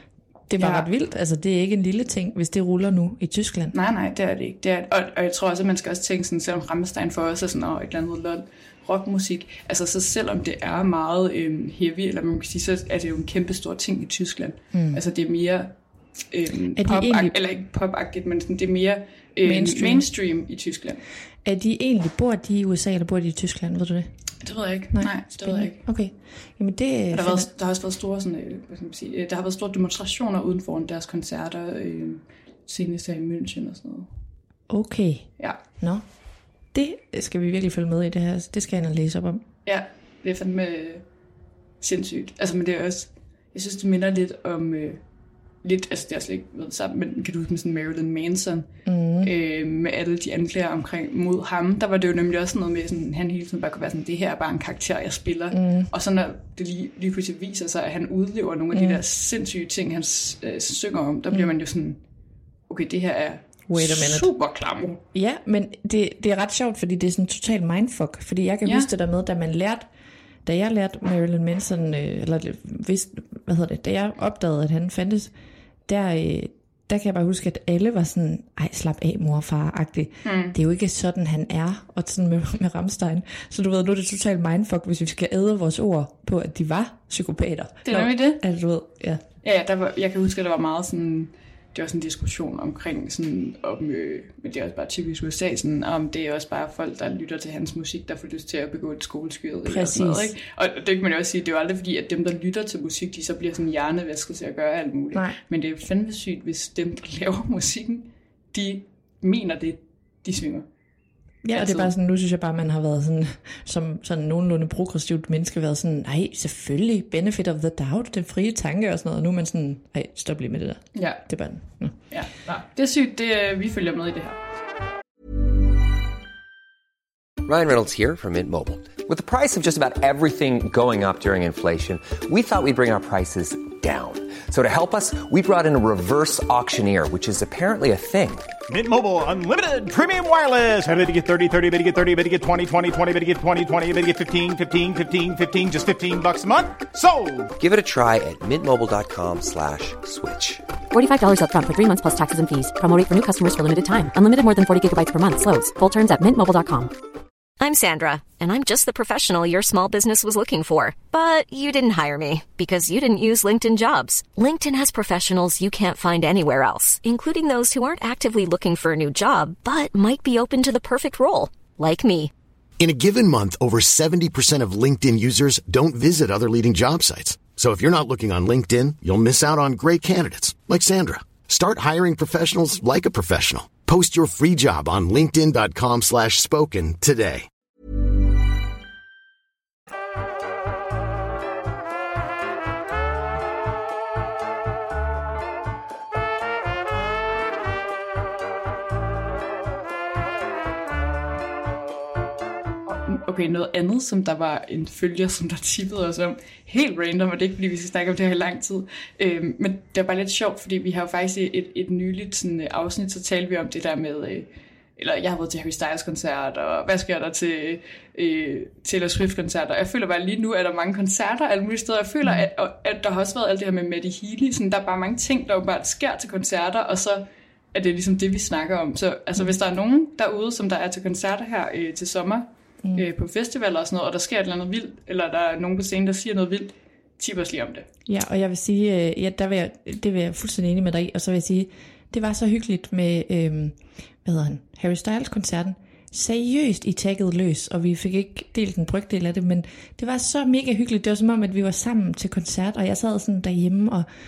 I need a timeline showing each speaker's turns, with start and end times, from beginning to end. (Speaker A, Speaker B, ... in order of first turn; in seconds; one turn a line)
Speaker A: 0.5-3.7
Speaker B: 0.6-0.9
Speaker B: 3.7-15.7
Speaker A: 14.7-15.0
Speaker B: 16.3-21.0
Speaker A: 16.8-17.4
Speaker A: 19.4-20.1
Speaker A: 21.4-24.1
Speaker B: 24.4-25.8
Speaker A: 24.9-27.5
Speaker B: 27.1-34.1
Speaker A: 34.7-36.0
Speaker A: 36.7-39.4
Speaker B: 39.7-41.0
Speaker B: 41.8-45.0
Speaker B: 45.6-48.7
Speaker A: 48.9-49.3
Speaker B: 49.2-62.0
Speaker A: 55.5-55.9
Speaker A: 58.7-59.0
Speaker B: 62.7-65.0
Speaker A: 63.7-64.3
Speaker A: 65.1-69.9
Speaker A: 70.5-75.3
Speaker A: 75.9-89.2
Speaker B: 80.2-80.6
Speaker B: 87.9-88.4
Speaker B: 89.4-110.7
Speaker A: 99.7-100.3
Speaker A: 111.4-122.0
Speaker B: 111.5-111.9
Speaker B: 121.0-121.2
Speaker B: 122.1-124.4
Speaker C: 127.4-138.5
Speaker D: 138.7-147.5
Speaker C: 147.6-150.6
Speaker E: 150.9-156.9
Speaker F: 157.6-172.3
Speaker G: 172.8-187.5
Speaker B: 202.9-237.9
Speaker A: 238.1-254.1